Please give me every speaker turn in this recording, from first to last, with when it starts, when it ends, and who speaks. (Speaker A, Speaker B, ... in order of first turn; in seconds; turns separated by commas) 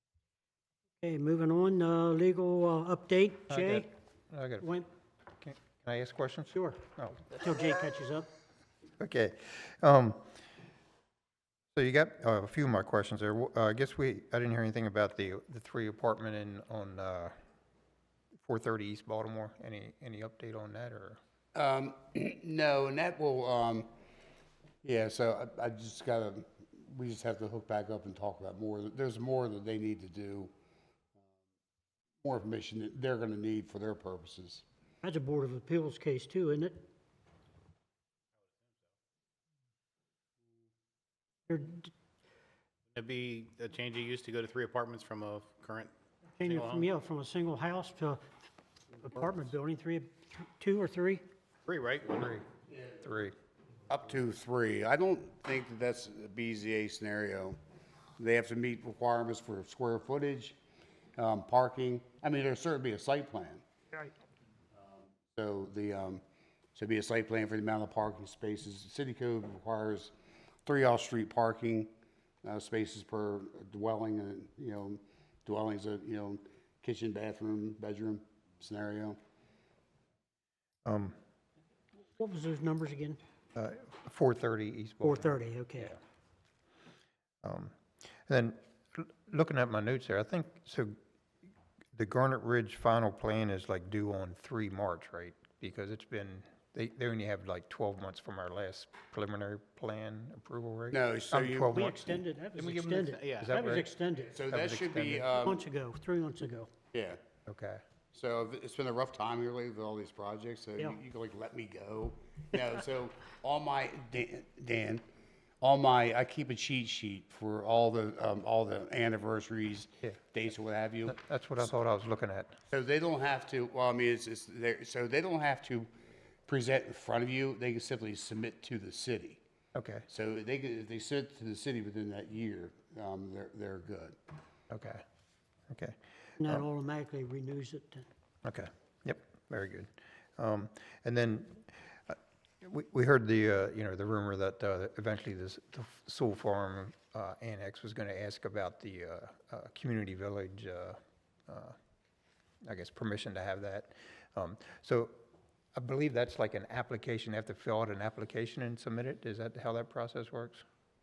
Speaker A: 1.0-3.9, Speaker B: 3.5-4.7, Speaker A: 4.6-4.9, Speaker B: 5.4-7.2, Speaker A: 6.5-6.8, Speaker A: 7.3-8.3, Speaker B: 9.0-10.2, Speaker B: 11.7-17.3, Speaker B: 18.4-21.2, Speaker C: 21.5-23.9, Speaker C: 24.8-30.5, Speaker C: 32.2-34.6, Speaker A: 35.0-36.8, Speaker A: 41.5-41.9, Speaker D: 42.9-46.9, Speaker A: 46.4-48.2, Speaker A: 49.0-51.2, Speaker D: 51.6-52.3, Speaker B: 52.2-52.4, Speaker B: 53.0-53.3, Speaker C: 54.0-57.6, Speaker C: 58.2-60.5, Speaker C: 61.2-63.6, Speaker C: 65.3-66.2, Speaker C: 66.7-70.1, Speaker C: 70.6-71.9, Speaker C: 72.4-79.2, Speaker B: 80.8-81.2, Speaker A: 82.2-83.2, Speaker B: 83.5-85.9, Speaker A: 85.0-85.9, Speaker B: 87.4-90.9, Speaker B: 91.9-101.9, Speaker C: 100.9-102.2, Speaker A: 101.7-104.4, Speaker D: 102.5-103.7, Speaker B: 103.4-103.9, Speaker C: 104.3-105.6, Speaker B: 104.5-105.3, Speaker A: 105.3-106.7, Speaker C: 106.9-107.2, Speaker B: 107.5-107.8, Speaker C: 108.1-115.0, Speaker C: 115.6-121.6, Speaker B: 121.0-122.6, Speaker C: 122.7-125.9, Speaker C: 126.5-129.4, Speaker B: 129.7-130.0, Speaker C: 130.1-134.2, Speaker B: 134.7-135.0, Speaker B: 135.7-135.9, Speaker A: 136.4-138.1, Speaker B: 138.4-151.8, Speaker B: 152.7-155.1, Speaker B: 155.8-160.6